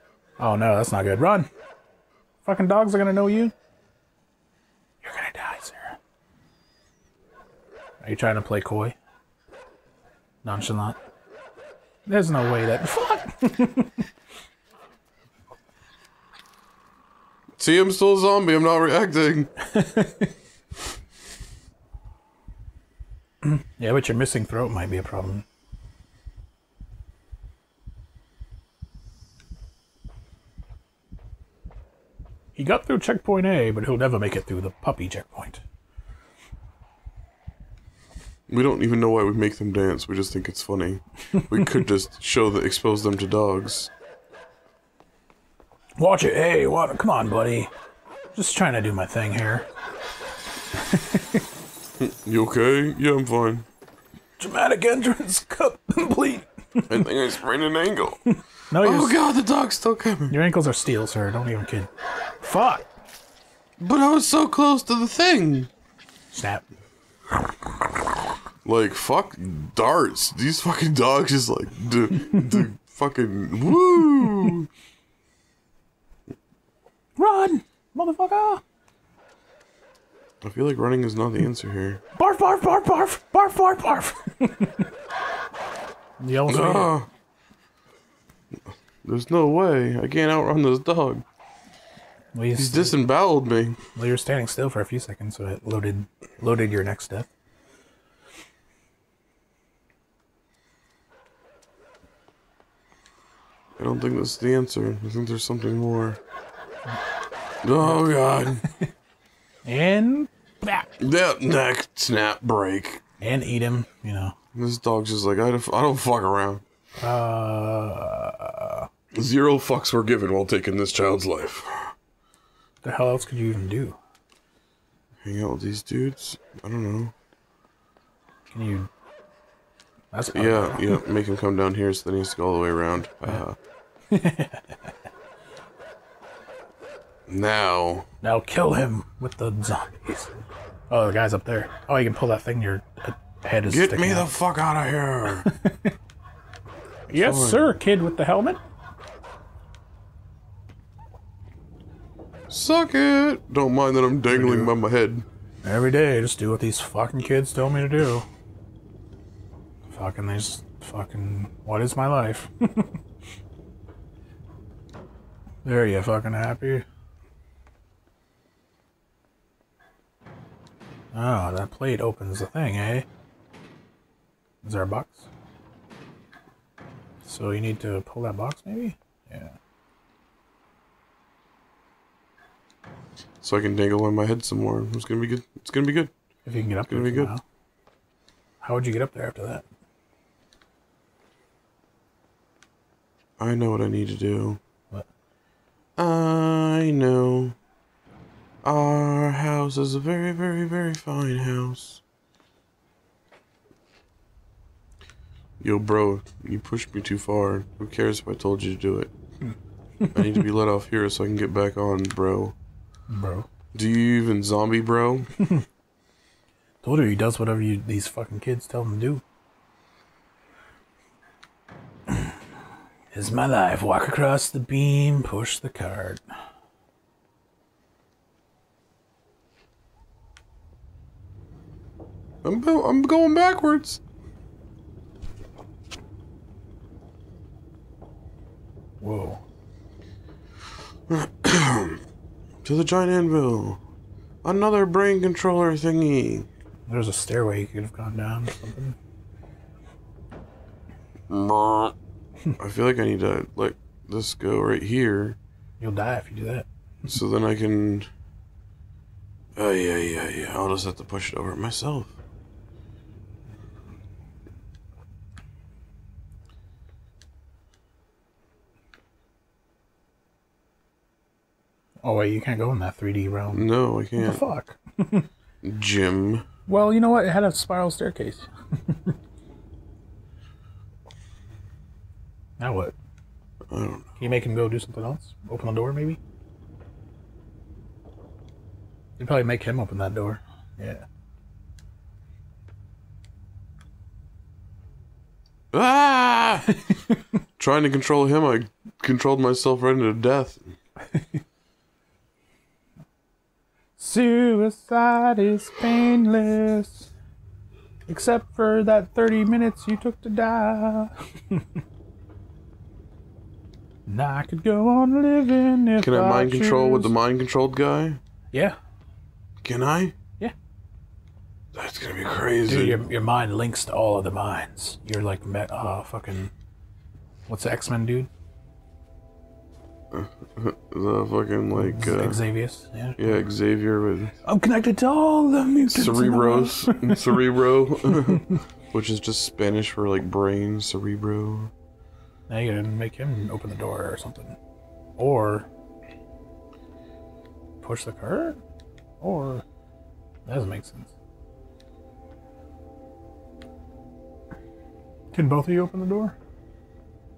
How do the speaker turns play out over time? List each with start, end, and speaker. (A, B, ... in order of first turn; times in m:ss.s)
0:00.4-0:01.5 A
0:02.4-0:03.5 A
0:05.0-0:06.0 A
0:08.0-0:09.0 A
0:10.4-0:11.0 A
0:12.1-0:14.0 A
0:17.6-0:19.5 B
0:19.6-0:20.3 A
0:23.4-0:25.4 A
0:32.6-0:35.6 A
0:38.5-0:43.9 B
0:46.0-0:47.7 A
0:48.3-0:49.7 A
0:50.8-0:51.4 A
0:52.0-0:53.7 B
0:54.4-0:57.1 A
0:56.9-0:58.2 B
0:58.3-0:59.2 A
0:58.8-1:00.4 B
1:00.3-1:01.9 A
1:02.4-1:02.9 A
1:03.8-1:05.7 B
1:06.3-1:06.7 A
1:08.6-1:14.7 B
1:17.2-1:18.6 A
1:20.4-1:22.0 B
1:22.2-1:24.9 A
1:26.2-1:26.9 A
1:26.5-1:27.1 B
1:29.0-1:31.2 B
1:32.3-1:33.0 A
1:32.6-1:33.8 B
1:34.0-1:37.3 A
1:43.8-1:46.2 B
1:47.6-1:48.6 B
1:47.8-1:48.9 A
1:49.6-1:50.9 A
1:51.0-1:53.0 B
1:53.2-1:54.4 A
1:54.6-1:56.6 B
1:57.0-1:58.9 A
1:59.1-2:01.9 B
2:02.8-2:04.0 A
2:05.2-2:07.1 B
2:08.5-2:08.9 A
2:10.1-2:11.0 A
2:10.3-2:13.6 B
2:14.1-2:14.8 A
2:17.3-2:18.1 B
2:18.2-2:20.3 A
2:20.9-2:24.3 A
2:23.7-2:25.5 B
2:25.4-2:25.9 A
2:27.1-2:27.8 B
2:27.1-2:28.6 A
2:32.5-2:35.2 B
2:34.3-2:34.7 A
2:35.6-2:38.3 A
2:39.9-2:43.0 A
2:45.6-2:46.8 A
2:51.1-2:53.1 A
2:54.6-2:55.3 A
2:57.2-2:59.6 A
3:03.4-3:06.1 B
3:06.5-3:07.4 A
3:06.9-3:07.4 B
3:08.6-3:09.6 A
3:13.4-3:14.6 B
3:16.0-3:17.6 B
3:18.6-3:22.0 B
3:25.6-3:29.1 B
3:29.5-3:30.4 A
3:30.2-3:32.6 B
3:33.1-3:33.5 A
3:33.7-3:35.3 B
3:35.4-3:35.6 A
3:36.8-3:39.2 A
3:43.1-3:46.2 A
3:52.4-3:54.0 B
3:59.0-3:59.4 A
4:01.1-4:02.0 B
4:02.6-4:03.8 B
4:04.4-4:06.5 B
4:06.9-4:09.0 A
4:11.3-4:12.0 B
4:12.6-4:15.4 B
4:15.8-4:16.7 A
4:17.1-4:18.1 B
4:19.6-4:22.2 B
4:32.0-4:35.3 A
4:33.5-4:34.4 B
4:35.6-4:36.4 B
4:36.7-4:39.2 A
4:42.6-4:43.0 A
4:43.7-4:44.1 B
4:44.2-4:46.2 A
4:49.2-4:51.0 A
4:55.7-4:56.8 B
4:56.9-4:57.2 A
4:57.6-5:00.6 B
5:04.0-5:07.1 A
5:08.1-5:11.6 A
5:14.1-5:17.1 A
5:16.0-5:18.2 B
5:18.5-5:18.8 A
5:19.6-5:20.2 B
5:21.8-5:23.0 B
5:22.7-5:26.5 A
5:27.5-5:28.3 A
5:30.1-5:32.4 B
5:31.7-5:33.4 A
5:33.2-5:34.4 B
5:34.4-5:37.4 A
5:35.9-5:41.7 B
5:38.1-5:38.6 A
5:42.5-5:44.6 A
5:45.2-5:45.7 A
5:47.8-5:48.6 A
5:49.2-5:49.6 A
5:50.5-5:51.1 A
5:55.3-5:56.4 A